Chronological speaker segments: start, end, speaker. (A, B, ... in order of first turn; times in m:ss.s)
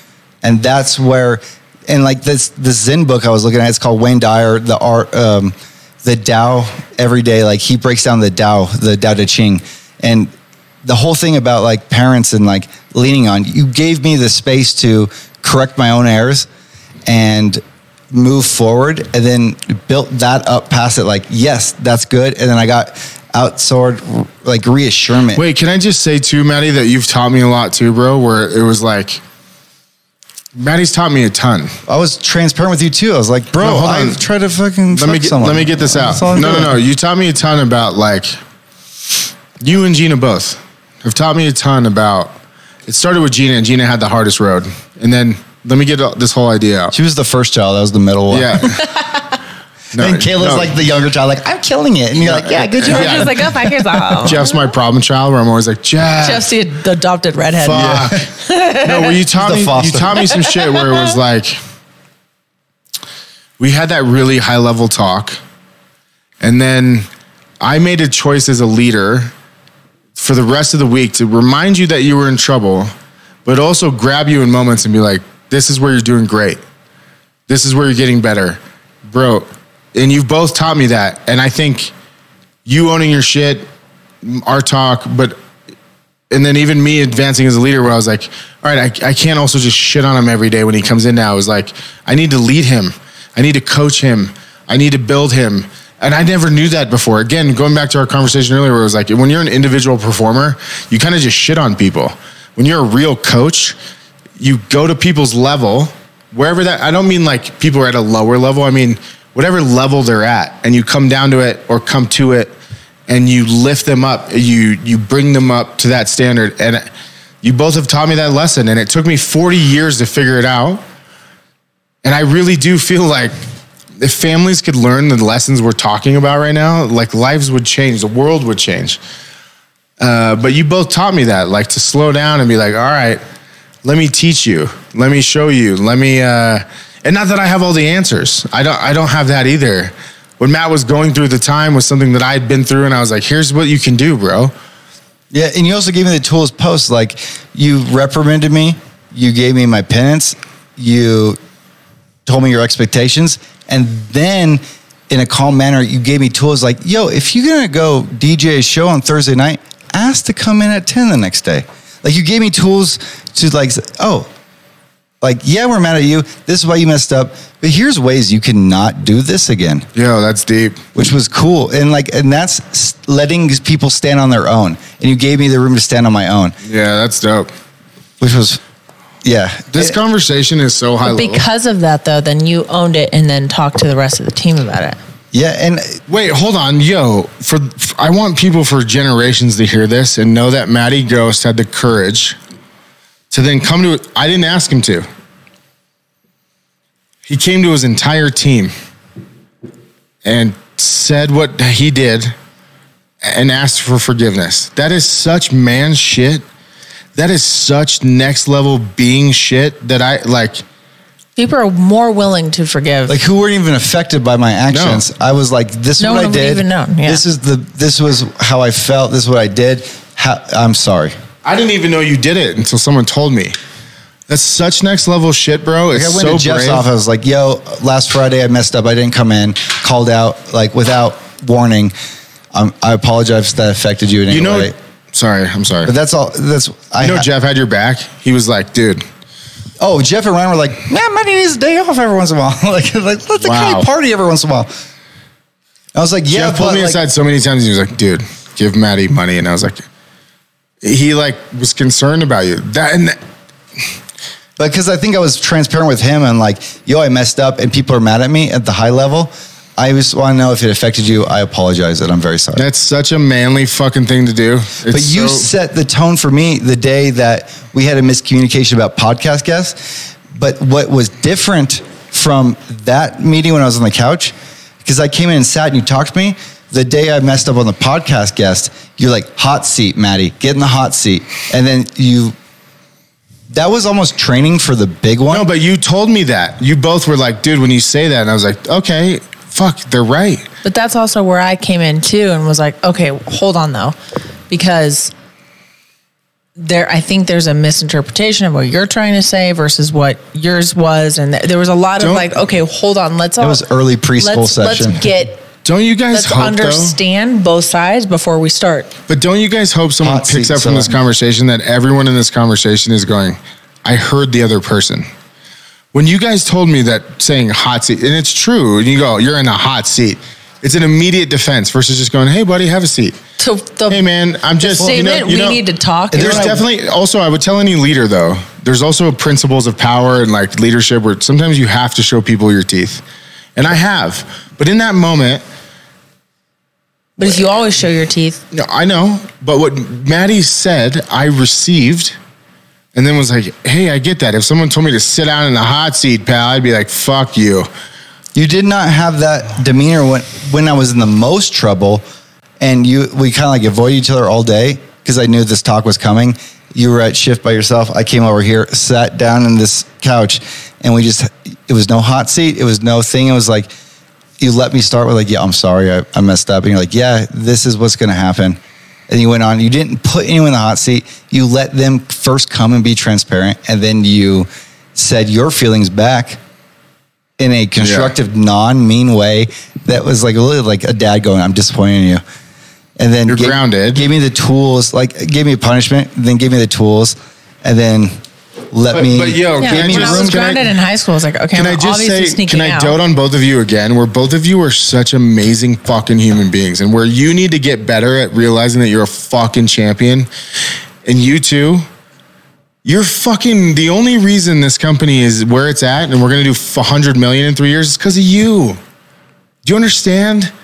0:00.4-0:10.3 A
0:10.8-0:16.5 A
0:17.0-0:25.4 A
0:25.3-0:29.2 B
0:30.5-0:31.7 B
0:31.8-0:36.8 A
0:33.6-0:34.2 B
0:34.9-0:38.3 B
0:39.6-0:42.3 B
0:42.8-0:46.9 B
0:46.9-0:48.8 A
0:48.3-0:48.9 B
0:48.8-0:49.1 C
0:49.9-0:50.8 B
0:50.0-0:54.3 A
0:52.3-0:54.6 C
0:52.8-0:53.4 B
0:54.2-0:56.4 B
0:56.2-0:59.2 C
0:57.6-0:58.3 B
0:57.7-0:58.2 A
0:58.8-1:01.6 B
0:59.3-1:00.2 A
1:00.3-1:01.1 C
1:03.6-1:05.4 B
1:06.4-1:07.1 B
1:07.6-1:09.3 B
1:10.2-1:12.9 B
1:13.4-1:16.6 B
1:17.5-1:21.9 B
1:22.6-1:23.6 B
1:24.2-1:25.4 B
1:26.3-1:43.8 B
1:44.4-1:52.5 B
1:53.1-1:56.9 B
1:57.4-2:00.8 B
2:02.0-2:03.3 B
2:04.0-2:09.0 B
2:10.0-2:13.2 B
2:13.8-2:24.5 B
2:25.3-2:31.4 A
2:32.2-2:44.3 A
2:45.2-2:49.8 A
2:49.9-2:50.8 B
2:50.9-2:56.6 A
2:56.6-2:57.5 B
2:58.2-2:58.6 A
2:59.2-3:00.0 A
2:59.7-3:01.4 B
3:01.0-3:05.0 C
3:05.3-3:06.0 A
3:06.1-3:12.4 B
3:13.3-3:15.0 B
3:17.3-3:18.7 B
3:20.2-3:22.3 B
3:23.2-3:26.4 B
3:27.1-3:30.6 B
3:31.4-3:33.2 C
3:33.1-3:41.2 A
3:34.7-3:35.0 B
3:36.0-3:37.2 C
3:41.4-3:43.5 B
3:44.3-3:46.9 B
3:45.9-3:51.9 A
3:52.5-3:54.7 A
3:54.3-3:55.9 B
3:55.8-3:57.2 A
3:57.0-3:59.0 B
3:59.8-4:04.7 A
4:03.4-4:03.9 B
4:05.9-4:07.0 A
4:06.3-4:09.8 B
4:10.8-4:13.2 B
4:14.6-4:22.6 A
4:22.6-4:25.5 B
4:24.9-4:42.3 A
4:43.5-4:45.5 A
4:45.3-4:50.5 B
4:50.6-4:53.9 C
4:54.5-4:55.1 C
4:56.6-5:03.6 C
5:02.0-5:02.3 B
5:03.4-5:05.0 A
5:04.2-5:05.4 C
5:05.6-5:07.0 B
5:06.1-5:08.9 C
5:09.1-5:15.1 B
5:10.0-5:11.0 A
5:15.9-5:23.2 B
5:23.4-5:24.0 C
5:23.9-5:33.0 B
5:24.6-5:26.6 C
5:26.1-5:26.6 A
5:33.6-5:35.4 B
5:37.2-5:38.4 C
5:38.5-5:42.2 B
5:42.9-5:47.7 B
5:48.3-5:52.0 A
5:52.6-6:03.7 A
6:04.4-6:16.4 A
6:17.4-6:22.2 A
6:17.8-6:18.1 B
6:23.0-6:28.2 A
6:23.3-6:24.0 B
6:28.7-6:30.5 A
6:28.9-6:30.7 B
6:29.6-6:33.0 C
6:31.5-6:40.3 B
6:41.0-6:41.8 B
6:42.8-6:48.8 B
6:49.6-6:50.5 B